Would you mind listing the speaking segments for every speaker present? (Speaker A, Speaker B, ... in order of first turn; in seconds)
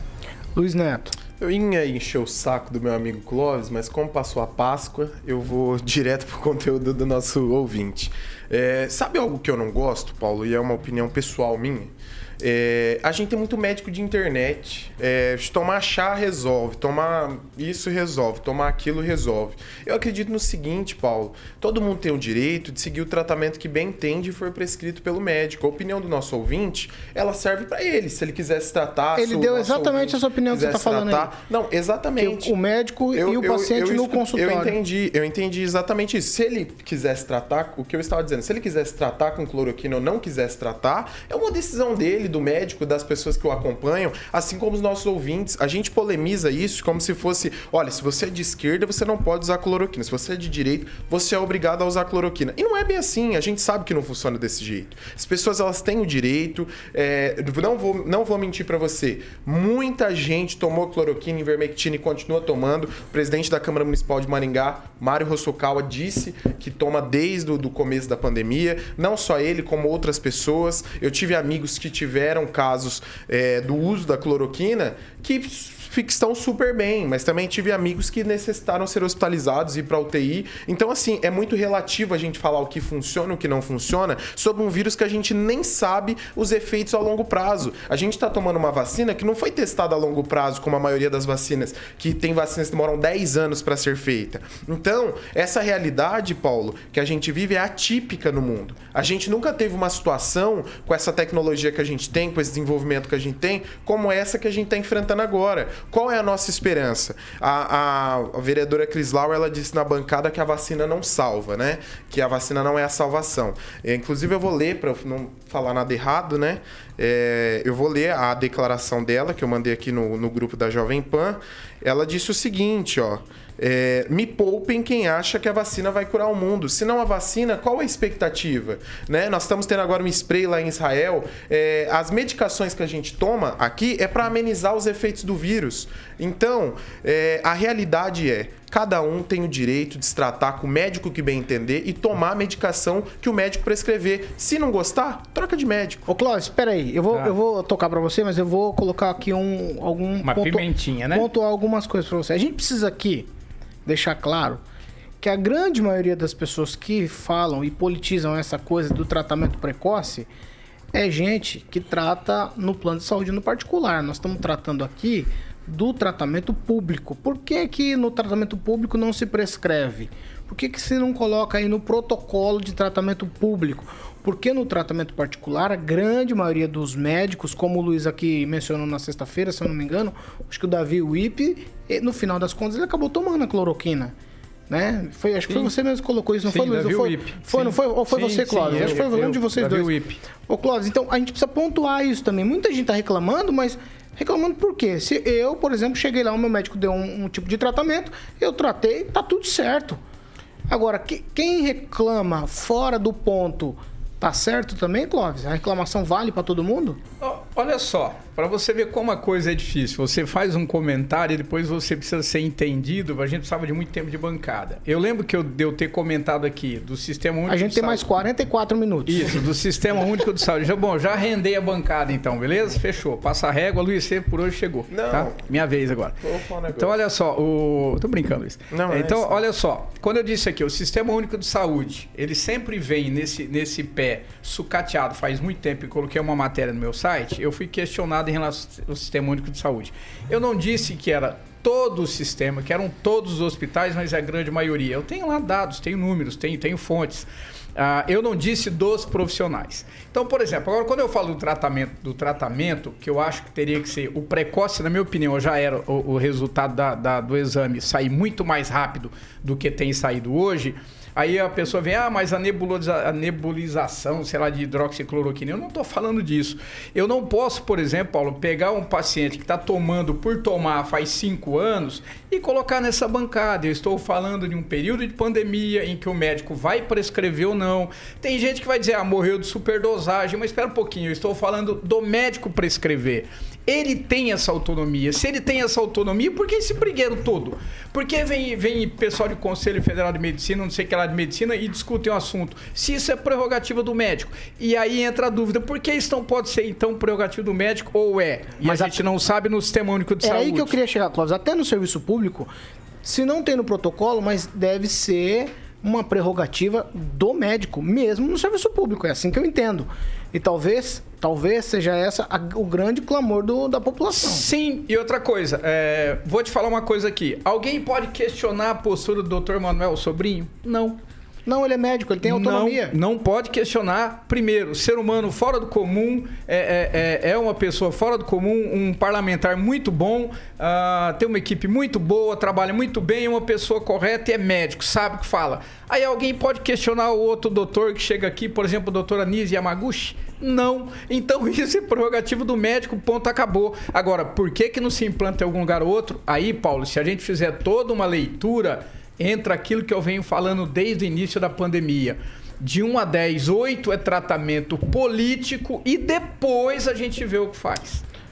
Speaker A: 0.6-1.1, 29.1-31.4, 32.2-34.8, 146.1-153.3, 153.9-154.6, 155.2-160.3, 160.9-184.2, 184.7-200.0, 200.7-207.0, 217.5-219.3, 298.6-299.0, 300.2-302.5, 303.0-314.4, 321.5-322.9
Speaker B: 1.4-32.5, 33.1-146.1, 224.9-225.4, 226.2-227.0, 228.7-229.4
Speaker C: 150.2-151.3, 186.4-190.2, 207.2-218.1, 219.1-226.2, 226.7-300.8, 314.1-321.0, 322.2-358.0